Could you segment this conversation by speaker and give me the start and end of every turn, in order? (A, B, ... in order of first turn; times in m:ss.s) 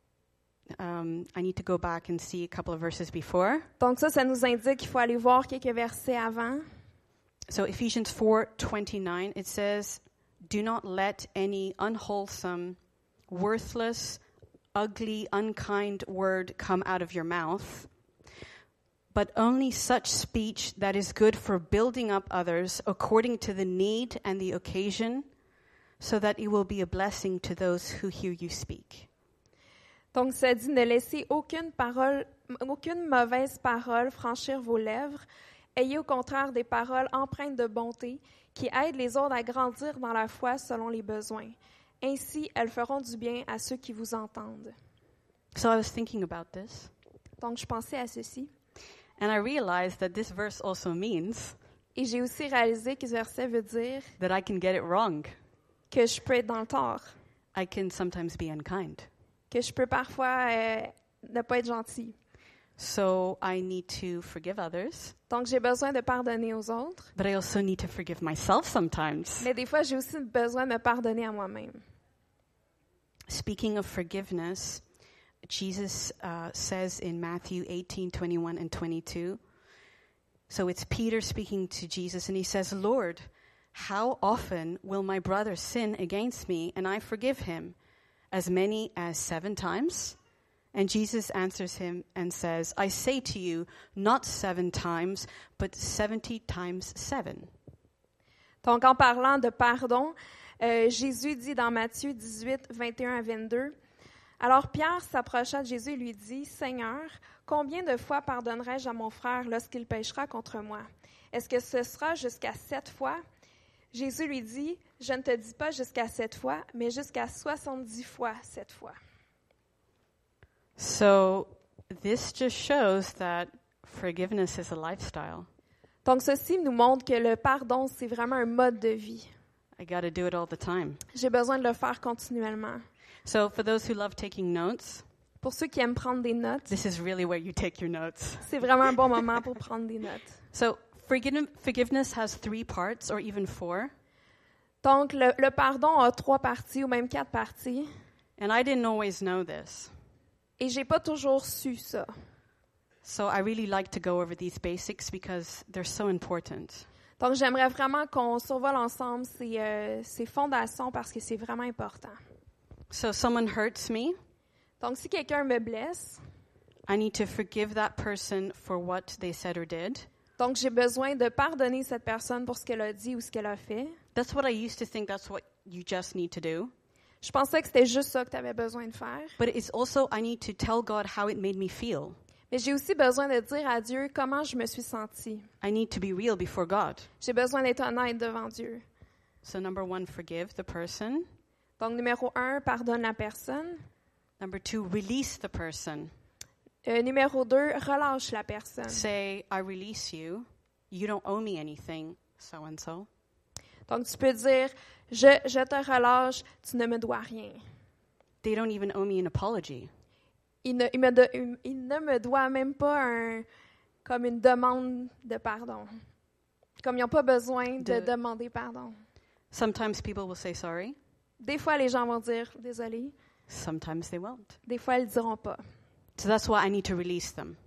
0:00.7-0:03.6 A
0:03.8-0:06.6 B
0:07.5-0:12.8 A
0:13.3-0:14.2 A
0:14.7-0:17.9 A
0:19.1-0:25.2 A
0:26.0-0:29.1 A
0:30.1-0:35.2 B
0:35.8-0:44.7 B
0:45.5-0:46.9 A
0:47.4-0:48.5 B
0:49.2-0:51.6 A
0:51.9-0:54.1 B
0:54.2-0:55.3 A
0:55.9-0:57.1 B
0:57.5-0:59.1 A
0:59.5-1:02.2 B
1:02.8-1:05.1 A
1:05.3-1:07.1 B
1:07.1-1:09.5 A
1:09.4-1:11.8 B
1:13.3-1:14.8 A
1:15.4-1:19.4 A
1:20.5-1:27.7 A
1:28.3-1:30.2 A
1:30.7-1:37.5 A
1:38.6-1:43.8 B
1:44.4-1:53.2 B
1:53.9-1:59.0 B
2:00.8-2:05.5 A
2:06.0-2:09.3 B
2:09.8-2:11.0 A
2:11.1-2:12.8 B
2:13.2-2:15.0 A
2:15.4-2:16.7 B
2:16.7-2:18.5 A
2:18.4-2:20.4 B
2:20.5-2:23.9 A
2:24.8-2:27.9 B
2:28.4-2:29.9 A
2:30.6-2:32.1 B
2:33.0-2:36.9 A
2:37.2-2:42.2 B
2:42.9-2:44.1 A
2:44.8-2:46.2 B
2:46.9-2:50.1 A
2:50.4-2:54.0 B
2:54.1-2:56.7 A
2:57.2-2:59.4 B
2:59.4-3:02.2 A
3:02.5-3:05.5 B
3:05.6-3:07.1 A
3:07.2-3:08.8 B
3:09.4-3:11.2 A
3:11.8-3:13.8 B
3:14.4-3:16.1 A
3:16.8-3:19.0 B
3:18.9-3:23.1 A
3:23.9-3:27.6 B
3:28.4-3:29.9 A
3:30.6-3:33.4 B
3:34.0-3:36.0 B
3:36.8-3:39.0 B
3:37.8-3:38.1 A
3:39.5-3:41.0 A
3:41.4-3:43.1 B
3:43.5-3:44.6 A
3:44.6-3:45.6 B
3:46.2-3:47.6 A